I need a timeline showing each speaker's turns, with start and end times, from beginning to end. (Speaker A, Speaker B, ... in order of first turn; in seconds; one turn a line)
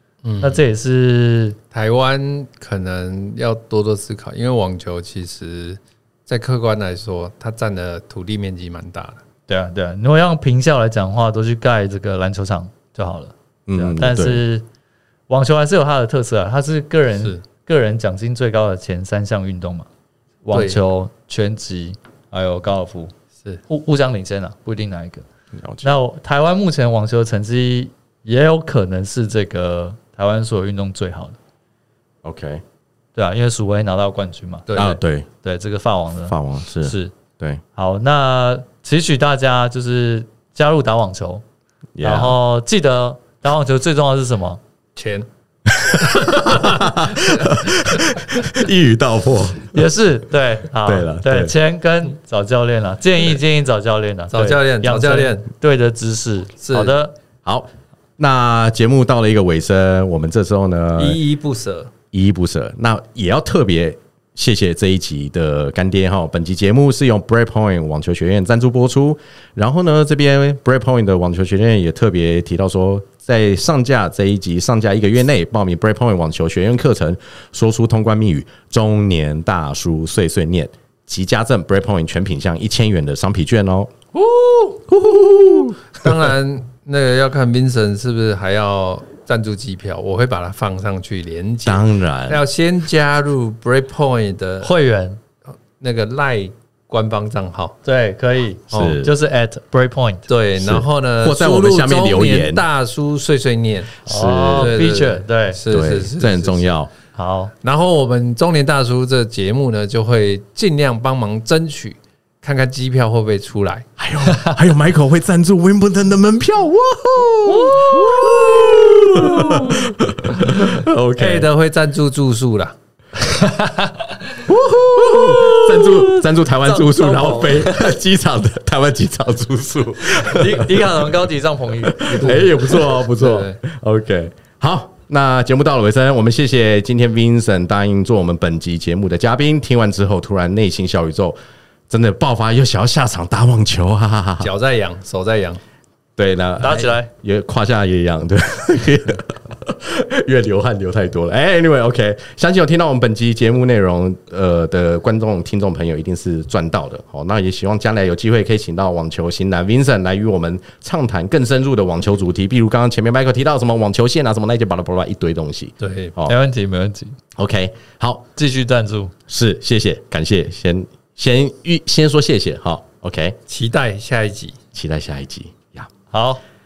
Speaker A: 0.2-0.6
Speaker B: 0.4-1.6
Speaker A: 1.7-9.2
Speaker B: 9.5-14.6
Speaker C: 13.7-14.4
Speaker B: 15.3-19.9
Speaker B: 20.4-23.1
Speaker A: 20.5-20.8
Speaker B: 23.7-25.2
Speaker C: 25.6-25.9
Speaker B: 25.8-31.4
Speaker C: 32.2-32.6
Speaker B: 33.1-34.8
Speaker A: 34.7-35.0
Speaker C: 34.7-35.3
Speaker B: 35.4-37.1
Speaker C: 36.3-37.6
Speaker B: 37.7-41.4
Speaker C: 42.0-42.4
Speaker B: 42.0-44.6
Speaker A: 45.0-45.2
Speaker C: 45.7-49.9
Speaker A: 46.0-46.9
Speaker B: 49.7-57.1
Speaker C: 50.8-51.5
Speaker A: 54.3-55.5
Speaker A: 56.6-56.9
Speaker C: 57.4-61.2
Speaker A: 61.0-61.9
Speaker C: 62.1-84.0
Speaker C: 84.9-86.1
Speaker A: 85.9-94.7
Speaker C: 91.6-92.4
Speaker B: 94.6-95.2
Speaker A: 95.8-97.8
Speaker B: 97.8-100.3
Speaker C: 98.7-99.1
Speaker A: 100.3-106.7
Speaker C: 100.6-102.6
Speaker C: 104.0-104.8
Speaker B: 104.0-105.6
Speaker C: 105.7-106.9
Speaker B: 107.1-107.5
Speaker A: 107.6-113.9
Speaker C: 114.0-121.5
Speaker B: 114.3-114.5
Speaker B: 117.5-119.7
Speaker A: 120.7-122.7
Speaker B: 123.3-127.9
Speaker C: 124.5-131.1
Speaker B: 130.0-132.5
Speaker C: 131.8-141.4
Speaker A: 132.1-133.6
Speaker C: 141.9-144.5
Speaker A: 144.4-145.6
Speaker C: 146.2-166.3
Speaker B: 146.6-147.1
Speaker A: 165.8-166.1
Speaker B: 166.2-167.2
Speaker C: 167.3-168.2
Speaker B: 168.3-169.1
Speaker C: 169.3-173.4
Speaker A: 173.5-174.6
Speaker C: 174.7-175.9
Speaker B: 176.1-176.4